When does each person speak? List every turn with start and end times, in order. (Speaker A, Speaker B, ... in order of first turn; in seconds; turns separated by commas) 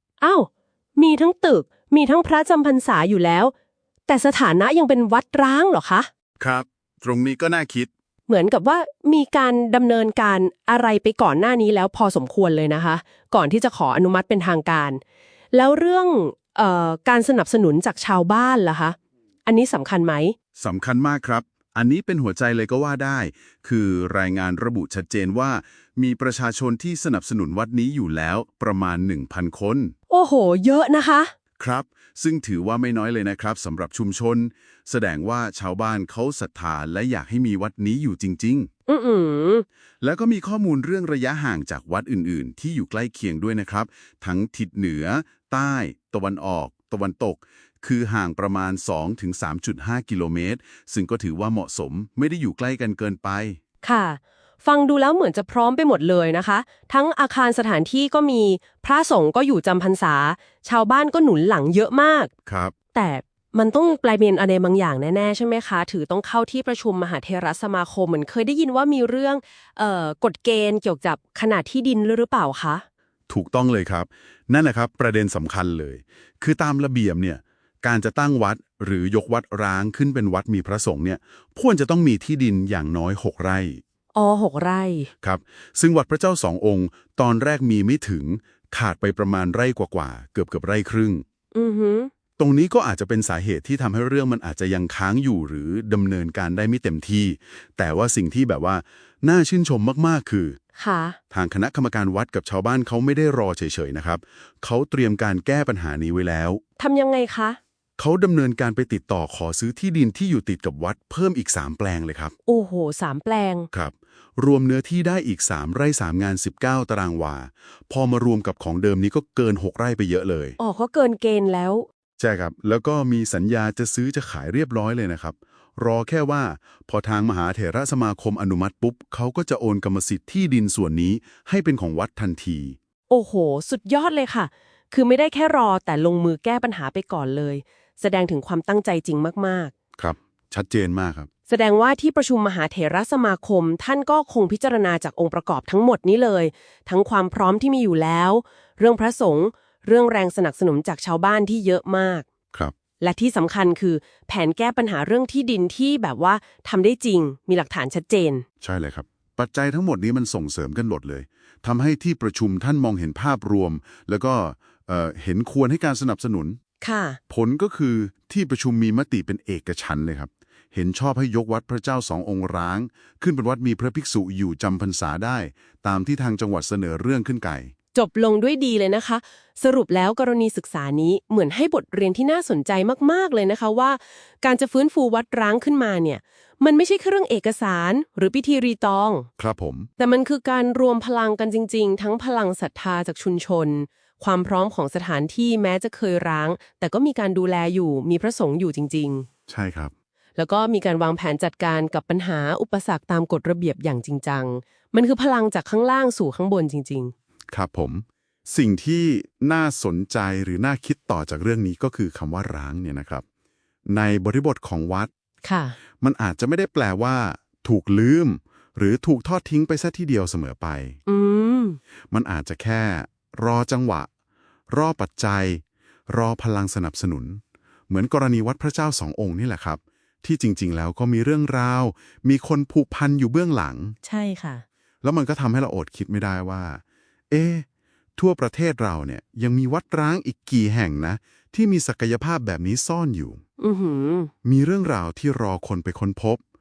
Speaker A: 0.2-3.5, Speaker A: 4.1-6.1, Speaker B: 6.4-7.9, Speaker A: 8.3-15.0, Speaker A: 15.5-20.4, Speaker B: 20.6-29.9, Speaker A: 30.1-31.3, Speaker B: 31.6-38.7, Speaker A: 38.9-39.6, Speaker B: 40.0-53.6, Speaker A: 53.8-62.3, Speaker B: 62.5-62.7, Speaker A: 62.9-72.8, Speaker B: 73.3-83.8, Speaker A: 84.2-85.1, Speaker B: 85.2-91.2, Speaker A: 91.5-92.1, Speaker B: 92.4-100.6, Speaker A: 100.8-101.2, Speaker B: 101.3-106.6, Speaker A: 106.8-107.6, Speaker B: 108.0-112.3, Speaker A: 112.5-113.7, Speaker B: 113.7-120.6, Speaker A: 120.6-121.9, Speaker B: 122.2-132.8, Speaker A: 133.1-139.7, Speaker B: 140.0-141.3, Speaker A: 141.5-152.2, Speaker A: 153.0-158.4, Speaker B: 158.6-166.6, Speaker A: 166.8-167.2, Speaker B: 167.3-177.7, Speaker A: 177.9-189.3, Speaker B: 189.4-189.9, Speaker A: 190.0-199.3, Speaker B: 199.5-199.9, Speaker A: 200.4-207.1, Speaker B: 207.5-213.2, Speaker B: 213.9-215.1, Speaker A: 215.4-215.8, Speaker B: 216.0-221.0, Speaker A: 221.1-221.8, Speaker B: 222.1-224.1, Speaker B: 224.7-234.0, Speaker A: 234.0-234.6, Speaker B: 235.0-237.7, Speaker B: 238.2-243.4, Speaker A: 243.6-244.3, Speaker B: 244.4-246.4